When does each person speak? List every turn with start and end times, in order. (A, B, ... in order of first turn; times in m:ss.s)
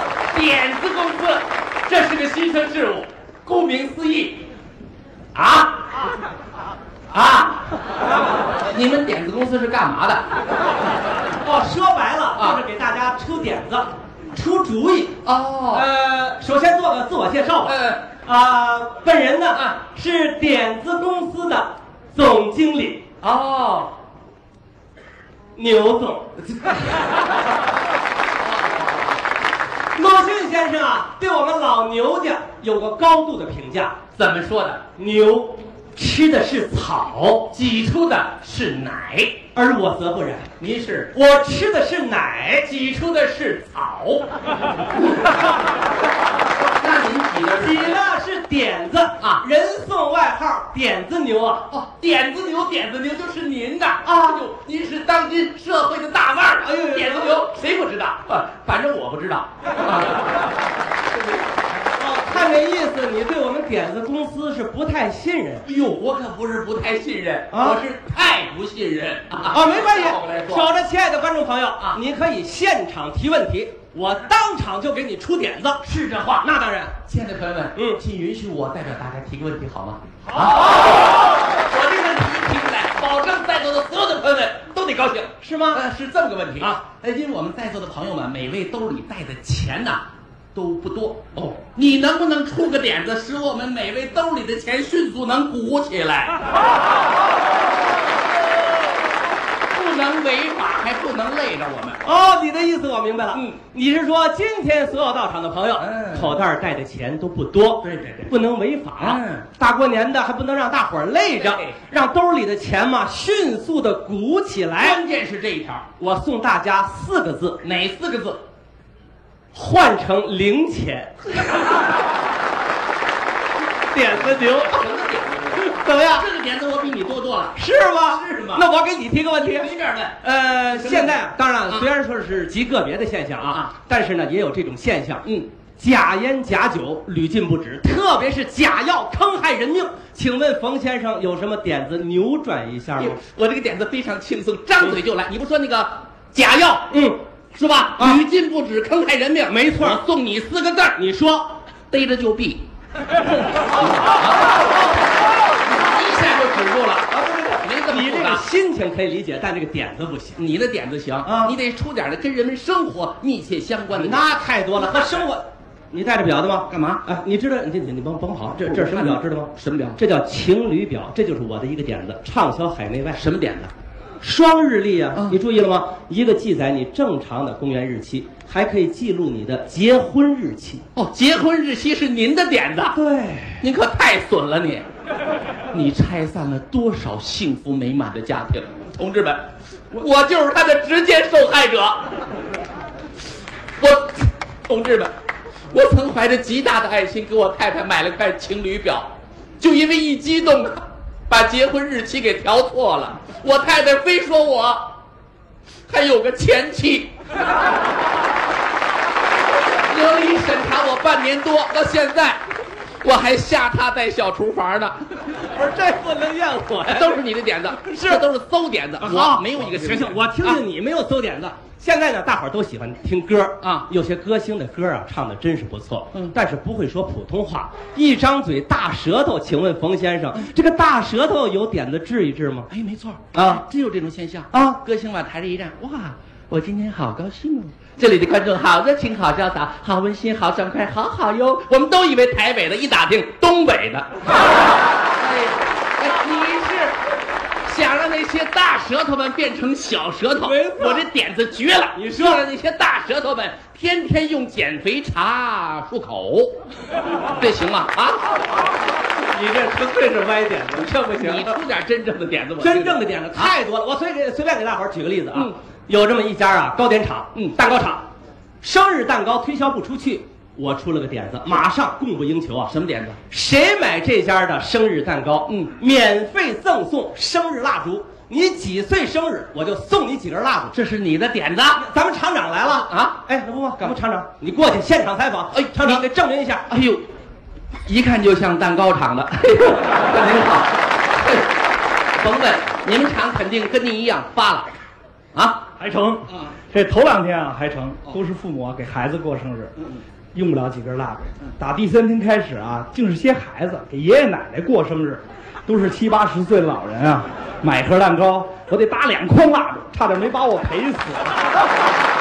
0:00.3-0:04.4 A
0:05.3-0:05.8 A
0:07.1-0:07.7 A
0:08.6-0:10.3 A
0:11.4-0:15.2 B
0:15.2-0:15.8 A
0:15.7-0:23.0 B
0:17.6-0:18.0 A
0:23.2-0:23.9 A
0:25.5-0:26.4 B
0:28.5-0:29.1 A
0:29.9-0:34.0 B
0:34.1-0:34.8 A
0:34.9-0:37.5 B
0:37.5-0:39.4 A
0:39.5-0:40.5 B
0:40.6-0:41.1 A
0:41.1-0:42.7 B
0:42.6-0:44.3 A
0:46.6-0:48.0 A
0:47.6-0:51.7 B
0:51.7-1:00.4 A
0:54.0-0:54.4 B
0:56.6-0:57.4 B
1:02.0-1:05.6 B
1:05.6-1:10.6 A
1:07.5-1:07.8 B
1:09.5-1:15.8 B
1:15.8-1:16.5 A
1:16.4-1:17.0 B
1:17.0-1:36.4 A
1:25.4-1:25.8 B
1:39.7-1:42.0 A
1:42.0-1:55.0 B
1:45.8-1:46.4 A
1:47.8-1:48.3 A
1:49.0-1:49.4 A
1:51.4-1:51.8 A
1:54.8-1:55.9 A
1:56.0-1:57.6 B
1:57.6-1:58.4 A
1:59.5-2:01.7 B
2:03.9-2:04.8 B
2:04.0-2:08.6 A
2:05.6-2:06.3 B
2:07.5-2:15.2 B
2:09.5-2:10.1 A
2:10.8-2:11.2 A
2:15.8-2:23.2 B
2:23.0-2:26.9 A
2:26.9-2:27.2 B
2:27.5-2:31.0 A
2:28.0-2:28.2 B
2:29.5-2:30.0 B
2:31.0-2:31.5 B
2:31.9-2:32.6 A
2:33.8-2:34.6 A
2:35.7-2:38.5 A
2:37.1-2:40.4 B
2:40.4-2:44.3 A
2:41.2-2:41.6 B
2:43.9-2:53.2 B
2:46.7-2:47.0 A
2:48.6-2:50.0 A
2:53.1-2:53.7 A
2:54.2-3:00.8 B
3:00.9-3:03.0 A
3:02.9-3:03.6 B
3:03.6-3:04.9 A
3:05.7-3:12.1 A
3:13.8-3:15.1 A
3:15.7-3:19.1 A
3:19.6-3:24.9 A
3:25.9-3:27.1 A
3:29.8-3:32.4 A
3:33.0-3:35.3 A
3:35.5-3:37.2 B
3:36.9-3:40.6 A
3:39.0-3:52.7 B
3:43.6-3:43.9 A
3:52.7-4:04.3 A
3:53.3-3:53.6 B
3:54.5-3:54.8 B
4:05.2-4:07.0 A
4:07.6-4:16.5 A
4:10.4-4:11.0 B
4:11.9-4:12.4 B
4:17.4-4:18.4 A
4:19.3-4:21.5 B
4:21.1-4:23.5 A
4:22.6-4:28.0 B
4:28.6-4:32.7 B
4:32.7-4:33.2 A
4:33.3-4:40.8 B
4:35.5-4:35.7 A
4:40.7-4:41.8 A
4:41.8-4:46.7 B
4:42.9-4:43.2 A
4:45.5-4:46.0 A
4:46.7-4:47.0 A
4:47.8-4:51.5 A
4:52.2-4:54.7 A
4:55.3-4:55.6 A
4:55.8-4:59.7 C
5:00.3-5:11.4 C